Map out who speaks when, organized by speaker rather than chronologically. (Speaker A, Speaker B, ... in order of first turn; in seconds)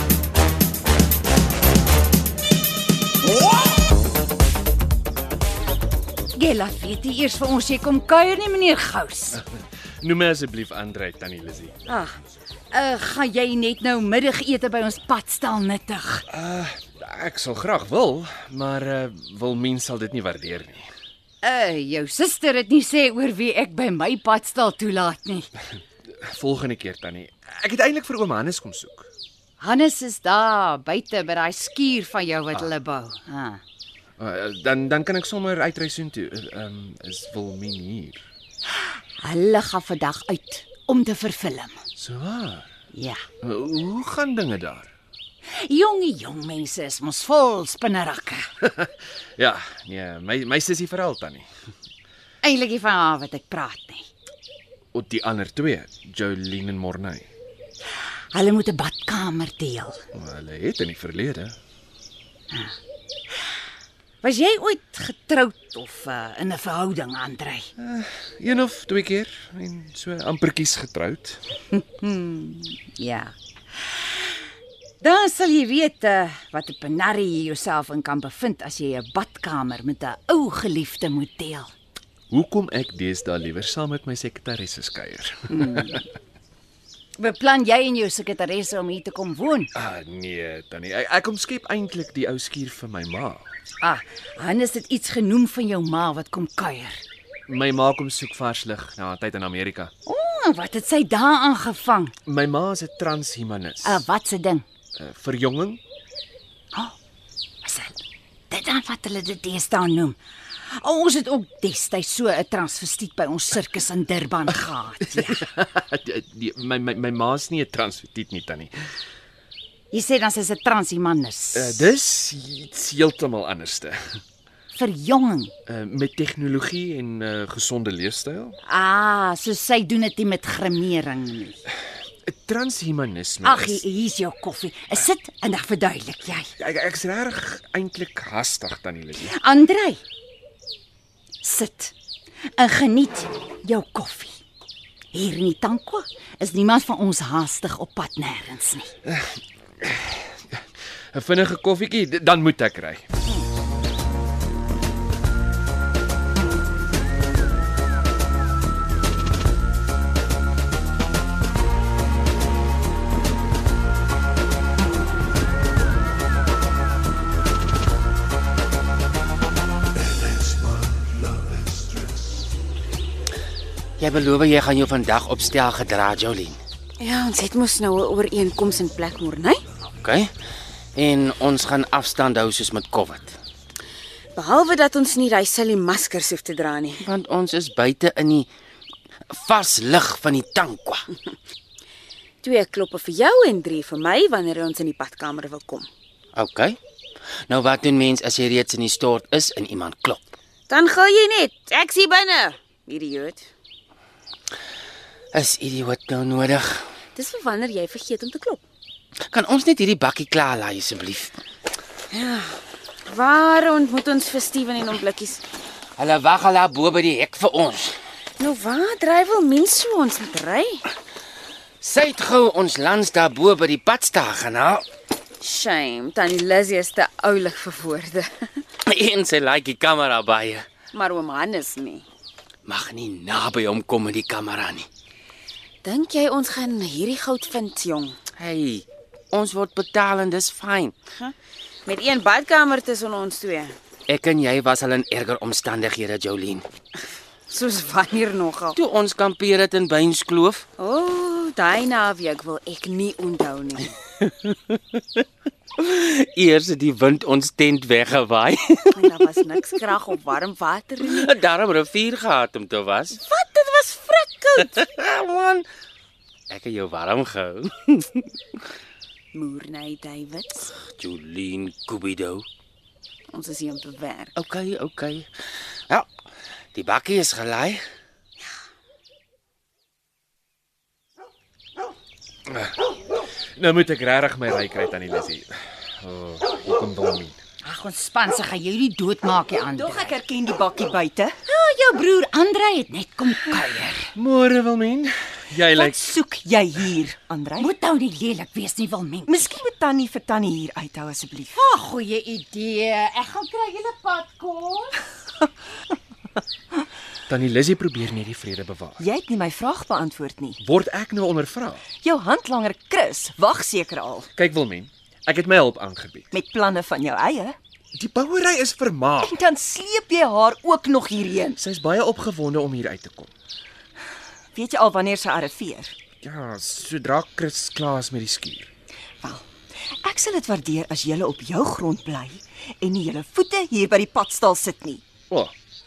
Speaker A: 6.3-9.4, 11.9-12.2, 12.7-16.2, 21.4-25.5, 29.6-33.6, 38.8-41.8, 42.9-43.2, 45.6-48.5, 52.4-54.1, 58.3-60.0, 62.5-62.8, 64.2-67.7, 71.7-74.4, 75.0-81.7, 85.5-86.0, 87.2-89.7, 93.8-97.0, 100.0-102.1, 103.8-104.6, 107.6-115.5, 119.9-121.9, 124.7-125.5, 128.6-131.6, 133.4-136.5, 139.2-140.0, 141.4-141.9, 142.6-144.4, 145.1-148.9, 287.6-290.1, 291.5-294.1, 297.6-299.4, 301.5-305.0
Speaker B: 10.0-11.8, 16.3-20.9, 26.2-29.1, 34.2-38.2, 42.0-42.7, 43.4-44.9, 48.6-51.5, 54.9-57.2, 60.1-61.5, 67.8-71.4, 82.3-86.0, 89.7-93.5, 97.5-99.9, 102.2-104.0, 105.0-105.8, 115.2-118.7, 121.5-124.2, 125.7-128.6, 132.2-133.8, 136.6-139.3, 149.1-153.1, 282.5-282.8, 283.6-287.4, 294.1-296.0, 307.3-309.0, 310.6-311.8, 314.3-316.3, 317.9-319.4, 321.6-323.3, 326.2-328.7
Speaker C: 174.0-176.6, 180.0-180.3, 180.9-183.3, 187.0-188.5, 189.3-191.1, 196.3-196.8, 197.5-200.3, 205.3-206.9, 209.3-211.4, 216.0-218.0, 221.8-224.8, 228.8-230.7, 232.7-234.9, 238.3-241.0, 244.1-246.7, 248.7-250.7, 254.2-255.0, 255.8-259.1, 261.0-263.2, 264.7-265.7, 266.5-268.3, 270.9-272.4, 274.4-275.3, 276.7-277.8
Speaker D: 177.0-179.6, 184.3-187.0, 192.4-195.9, 200.7-203.5, 207.1-208.6, 212.1-215.4, 218.4-220.8, 225.4-228.7, 230.9-232.1, 235.8-238.2, 241.8-243.7, 247.5-248.8, 250.8-254.0, 258.9-261.3, 263.1-264.8, 269.3-270.8, 273.3-274.3
Speaker E: 289.7-291.3, 295.7-297.7, 299.3-301.6, 309.0-310.6, 312.0-314.3, 316.3-317.6, 319.2-321.6, 324.5-325.9, 330.0-335.0